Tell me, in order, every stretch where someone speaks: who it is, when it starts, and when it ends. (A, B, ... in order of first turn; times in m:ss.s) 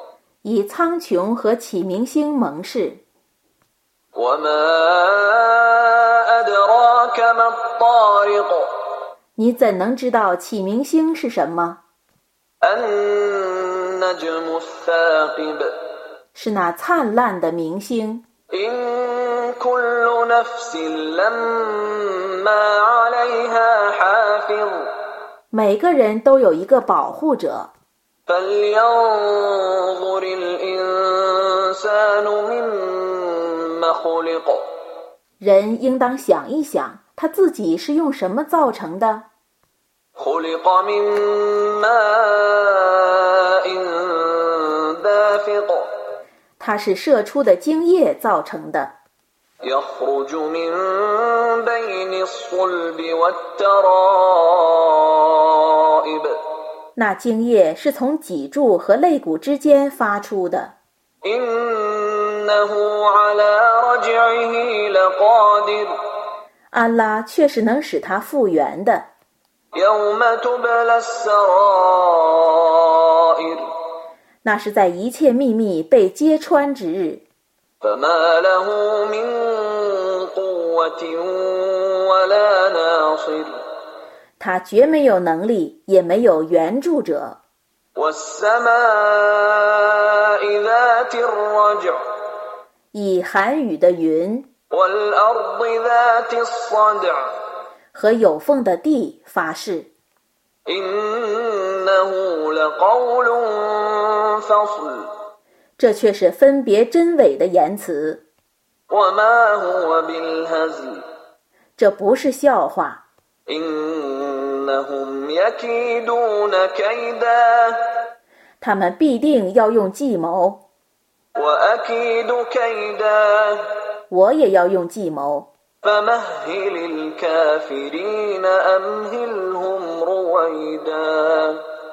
0:00.4-0:03.0 A
0:04.1-0:08.7 B
0:09.4-0:11.8 A
0:12.6-0:15.8 B
0:16.3-0:18.2 A
0:18.5-0:24.9 B
0:25.5-0:27.7 A
0:28.3-0:34.6 B
0:35.4-0:39.2 A
0:40.2-0:45.9 B
0:46.6-0:48.9 A
0:49.6-0:56.4 B
0:57.0-1:00.7 A
1:01.2-1:06.0 B
1:06.7-1:09.1 A
1:09.7-1:13.7 B
1:14.4-1:17.2 A
1:17.8-1:23.6 B
1:24.4-1:27.4 A
1:28.0-1:32.0 B
1:32.9-1:34.5 A
1:34.7-1:37.3 B
1:37.9-1:39.9 A
1:40.6-1:45.1 B
1:45.8-1:48.2 A
1:48.9-1:51.0 B
1:51.8-1:53.0 A
1:53.5-1:58.0 B
1:58.6-2:00.6 A
2:01.4-2:03.7 B
2:04.1-2:05.5 A
2:05.8-2:11.6 B